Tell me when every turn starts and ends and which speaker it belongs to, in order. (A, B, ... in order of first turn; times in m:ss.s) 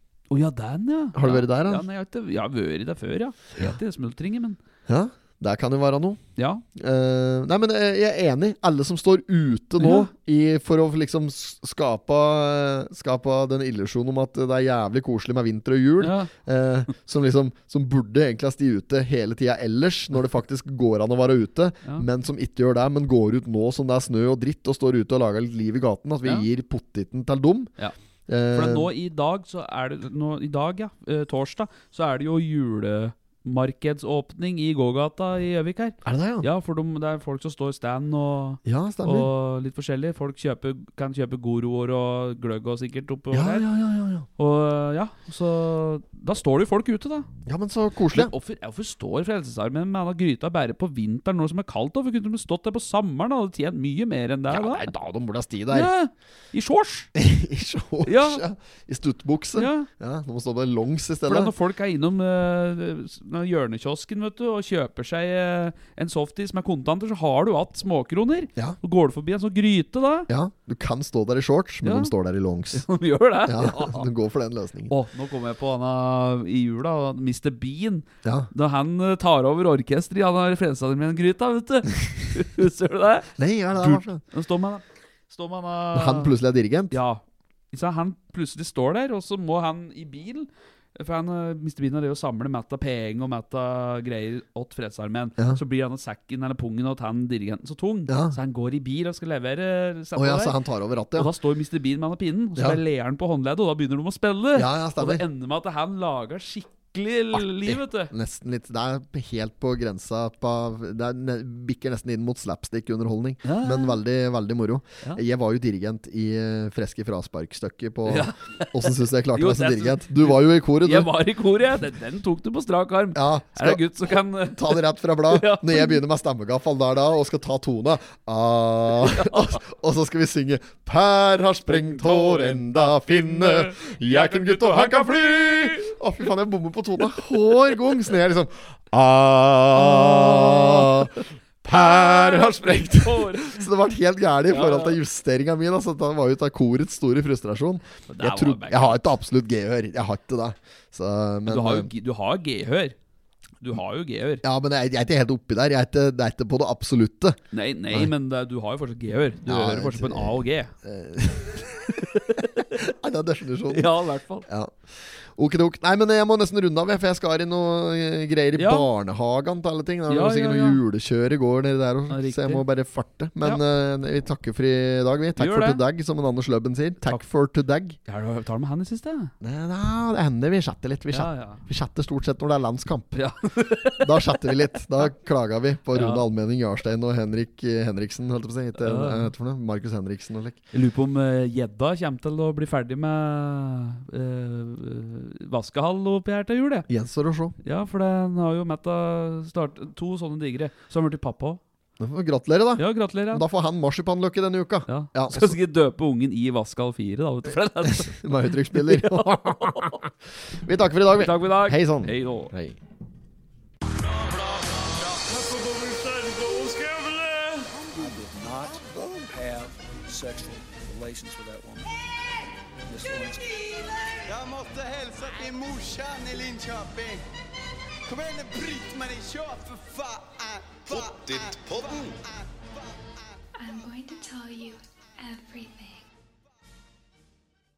0:00.3-0:04.6 A
0:01.1-0:01.9 B
0:04.9-0:06.2 B
0:06.4-0:06.6 A
0:06.8-0:27.7 B
0:09.8-0:10.1 A
0:16.0-0:16.3 A
0:28.3-0:28.9 B
0:28.5-0:43.7 A
0:36.0-0:36.5 B
0:38.6-0:39.3 B
0:43.3-0:44.3 B
0:44.4-0:47.3 A
0:47.4-0:48.3 B
0:48.1-0:54.9 A
0:54.5-0:55.9 B
0:55.7-0:57.1 A
0:57.2-1:01.5 B
0:58.0-0:58.4 A
0:59.6-0:59.9 A
1:01.3-1:10.3 A
1:10.3-1:12.9 B
1:11.8-1:12.1 A
1:12.7-1:14.1 A
1:13.5-1:14.9 B
1:14.9-1:26.3 A
1:18.2-1:18.5 B
1:23.4-1:24.2 B
1:25.9-1:27.0 B
1:26.9-1:40.6 A
1:38.1-1:38.4 B
1:40.2-1:41.3 B
1:41.1-1:48.1 A
1:44.5-1:45.2 B
1:47.3-2:01.1 B
1:53.4-1:54.0 A
1:58.1-2:06.0 A
2:03.2-2:31.9 B
2:09.0-2:09.6 A
2:11.7-2:15.9 A
2:17.0-2:18.0 A
2:19.8-2:23.7 A
2:24.5-2:25.0 A
2:28.1-2:29.1 A
2:31.5-2:33.0 A
2:33.6-2:34.4 A
2:34.4-2:37.4 B
2:37.5-2:40.7 A
2:39.5-2:43.9 B
2:41.9-2:42.7 A
2:43.7-2:44.5 A
2:44.5-2:58.0 B
2:48.6-2:48.9 A
2:50.1-2:50.8 A
2:52.1-2:52.6 A
2:55.4-2:55.8 A
2:58.1-2:59.3 A
2:59.4-3:03.2 B
3:01.1-3:01.6 A
3:03.1-3:04.8 A
3:04.0-3:10.6 B
3:05.9-3:06.2 A
3:08.8-3:09.3 A
3:10.7-3:16.9 A
3:16.9-3:17.6 B
3:17.6-3:21.6 A
3:22.0-3:25.6 B
3:22.8-3:23.4 A
3:24.9-3:30.0 A
3:27.8-3:30.1 B
3:30.6-3:32.8 B
3:31.1-3:32.5 A
3:33.8-3:44.1 C
3:38.7-3:39.3 B
3:44.3-3:47.2 D
3:48.1-3:52.8 D
3:53.6-3:56.1 E